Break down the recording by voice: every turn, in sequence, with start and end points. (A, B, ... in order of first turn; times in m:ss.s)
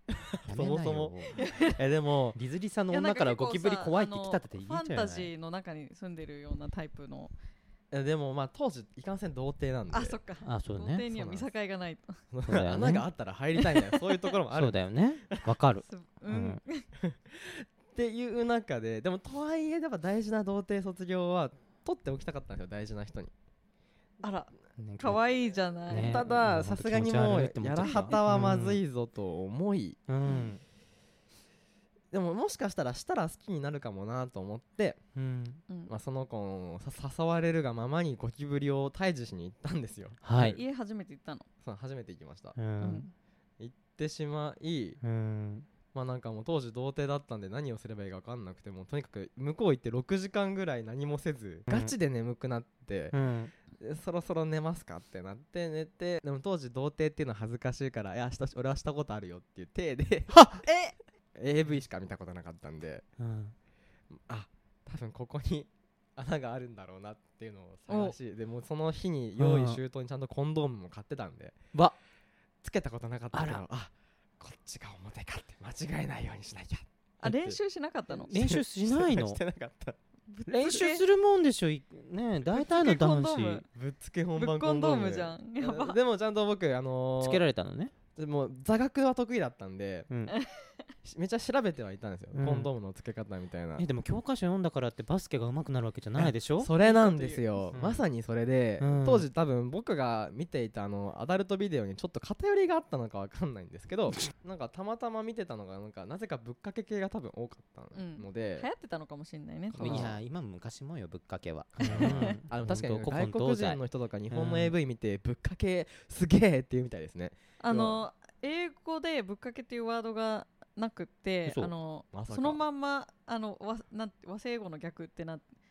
0:00.3-0:02.4 A
0:00.4-0:01.7 B
0:01.4-0:01.8 C
0:02.3-0:05.3 B
0:02.9-0:07.3 C
0:07.9-0:10.2 A
0:09.9-0:12.2 C
0:10.4-0:11.4 B
0:12.3-0:15.4 A
0:12.4-0:13.1 B
0:13.6-0:14.3 C
0:14.5-0:16.6 B
0:15.8-0:16.9 C
0:17.0-0:23.3 A
0:24.2-0:26.5 C
0:24.8-0:25.2 B
0:25.9-0:28.8 B
0:26.0-0:30.0 A
0:27.8-0:28.2 C
0:30.1-0:30.6 B
0:30.2-0:30.5 C
0:32.1-0:35.0 A
0:35.1-0:35.6 B
0:35.9-0:40.6 A
0:40.2-0:40.6 B
0:40.4-0:41.5 C
0:41.6-0:42.6 A
0:42.6-0:43.1 B
0:42.8-0:43.1 C
0:43.6-0:45.0 A
0:45.0-0:45.7 B
0:45.9-0:53.2 A
0:51.7-0:51.9 B
0:53.1-0:53.5 B
0:53.7-1:00.4 A
1:00.3-1:00.6 B
1:00.6-1:00.9 C
1:01.3-1:03.0 A
1:03.2-1:03.5 B
1:04.1-1:11.7 A
1:07.9-1:08.2 C
1:09.4-1:09.8 B
1:12.6-1:17.6 A
1:13.3-1:13.6 B
1:17.2-1:18.3 C
1:18.1-1:20.0 A
1:18.3-1:19.4 B
1:20.3-1:21.0 C
1:20.5-1:23.6 B
1:22.5-1:23.7 C
1:23.7-1:27.4 A
1:24.4-1:26.0 C
1:27.2-1:27.9 B
1:28.2-1:30.1 A
1:30.1-1:30.4 B
1:30.3-1:30.7 C
1:31.0-1:33.8 A
1:32.3-1:32.7 B
1:33.8-1:36.7 B
1:36.2-1:48.7 A
1:36.8-1:37.6 C
1:37.7-1:38.0 B
1:38.8-1:39.3 B
1:47.9-1:50.1 C
1:49.7-1:50.2 A
1:49.8-1:54.7 B
1:51.8-1:52.3 C
1:51.8-1:58.0 A
1:57.6-2:05.4 C
2:01.4-2:01.7 B
2:02.1-2:02.6 A